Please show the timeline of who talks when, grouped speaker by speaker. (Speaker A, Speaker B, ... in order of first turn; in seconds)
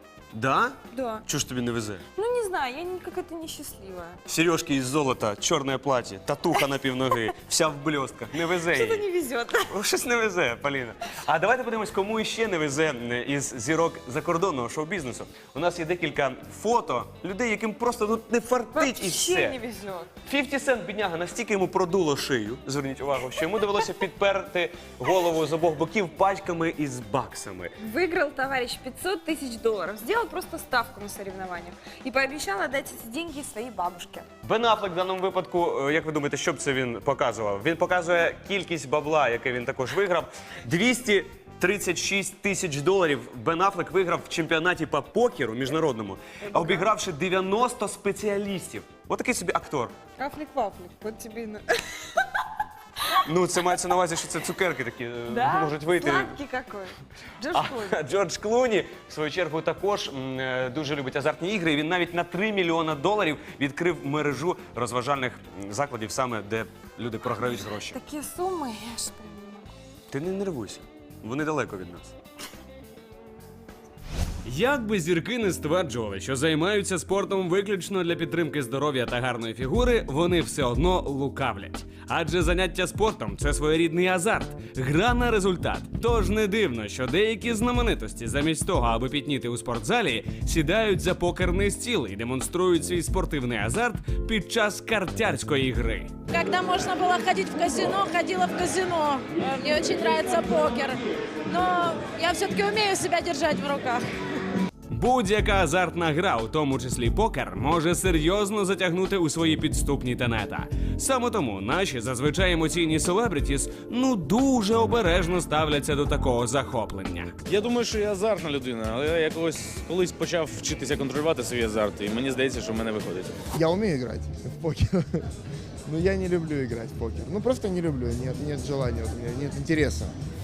Speaker A: 0.3-2.0, 4.3-9.1, 9.7-19.6, 20.2-27.7, 34.4-50.0, 53.3-56.4, 57.5-68.0, 70.1-72.1
Speaker B: 0.9-1.2, 2.2-4.2, 8.5-9.8, 18.7-20.1, 27.8-34.3, 46.5-46.9, 50.2-51.8, 55.3-58.0, 67.4-69.7
Speaker C: 74.5-96.2, 104.9-117.3
Speaker D: 96.3-104.0
Speaker E: 117.5-123.4
Speaker F: 123.5-125.2, 125.9-130.1